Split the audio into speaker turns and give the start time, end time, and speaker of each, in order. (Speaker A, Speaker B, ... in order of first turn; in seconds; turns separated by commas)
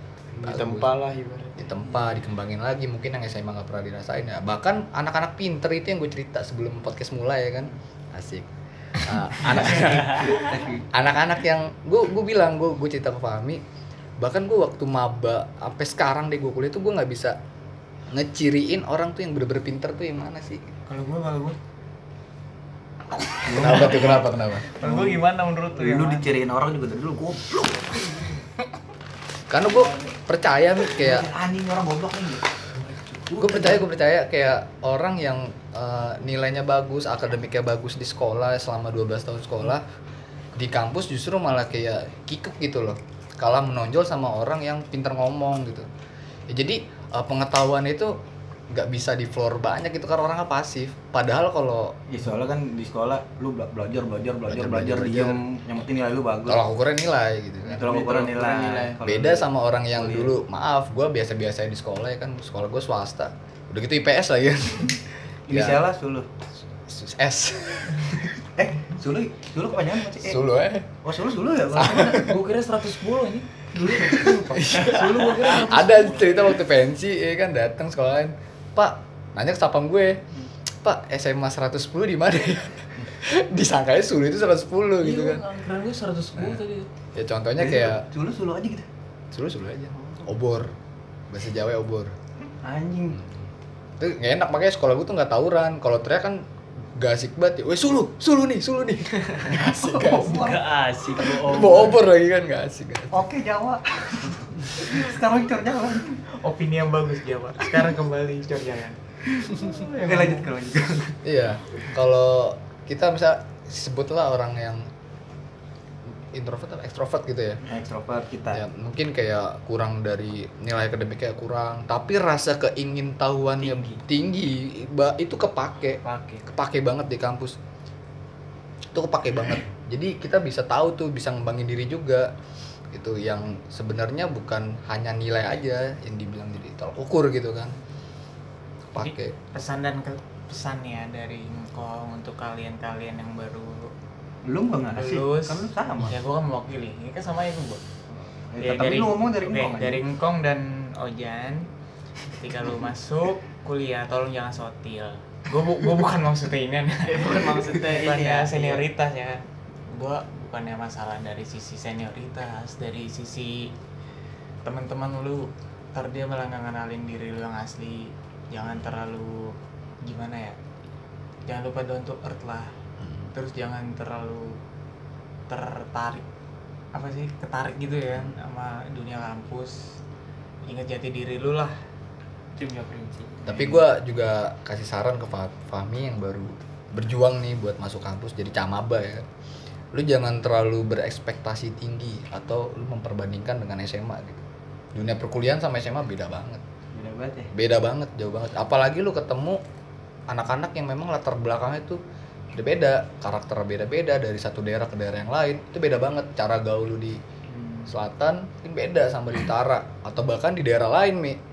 Speaker A: 0.3-1.9, Speaker B: 0.4-0.9, Speaker B: 1.6-13.6, Speaker C: 9.6-10.8, Speaker B: 14.2-17.4, Speaker B: 18.1-20.7, Speaker D: 20.9-21.6, Speaker C: 23.4-24.3, Speaker B: 23.5-24.7, Speaker D: 24.8-26.2, Speaker C: 24.8-25.2, Speaker C: 25.8-28.4, Speaker B: 29.5-31.3, Speaker C: 30.9-33.8, Speaker B: 33.4-39.9, Speaker B: 40.5-45.9, Speaker B: 46.5-48.1, Speaker B: 48.7-52.0, Speaker C: 52.1-56.6, Speaker B: 54.5-55.4, Speaker B: 56.5-58.0, Speaker C: 57.6-60.4, Speaker A: 57.9-59.0, Speaker B: 59.0-65.8, Speaker C: 65.5-66.3, Speaker B: 66.8-68.2, Speaker C: 68.6-70.5, Speaker B: 70.2-70.9, Speaker C: 71.0-72.4, Speaker B: 71.7-72.4, Speaker D: 71.8-76.5, Speaker C: 73.9-74.5, Speaker B: 74.5-85.4, Speaker D: 85.0-86.9, Speaker B: 87.1-88.0, Speaker C: 87.6-88.9, Speaker B: 89.3-90.7, Speaker B: 91.3-92.1, Speaker C: 92.6-93.2, Speaker B: 94.0-100.5, Speaker C: 99.5-100.6, Speaker E: 100.1-102.0, Speaker B: 101.4-103.2, Speaker C: 103.1-106.2, Speaker D: 106.4-109.0, Speaker D: 109.6-110.5, Speaker C: 109.6-111.2, Speaker B: 111.2-114.9, Speaker B: 116.3-117.6, Speaker C: 117.6-118.6, Speaker B: 118.5-127.6, Speaker E: 123.6-124.0, Speaker E: 126.0-126.5, Speaker B: 128.9-132.3, Speaker B: 132.9-137.8, Speaker B: 138.9-139.3, Speaker D: 139.0-143.9, Speaker C: 144.5-146.2, Speaker D: 144.9-147.8, Speaker C: 148.1-150.0, Speaker D: 148.6-151.7, Speaker D: 152.2-163.7, Speaker A: 157.1-158.8, Speaker D: 164.6-170.6, Speaker D: 171.5-172.7, Speaker B: 173.0-173.3, Speaker D: 173.3-174.6, Speaker D: 175.5-176.2, Speaker D: 176.9-180.0, Speaker D: 180.6-181.8, Speaker E: 182.6-183.4, Speaker B: 183.5-189.3, Speaker C: 183.5-183.8, Speaker B: 189.9-194.4, Speaker B: 194.9-196.6, Speaker C: 196.9-197.5, Speaker B: 197.5-199.6, Speaker B: 200.3-202.0, Speaker B: 202.5-207.2, Speaker B: 207.9-211.4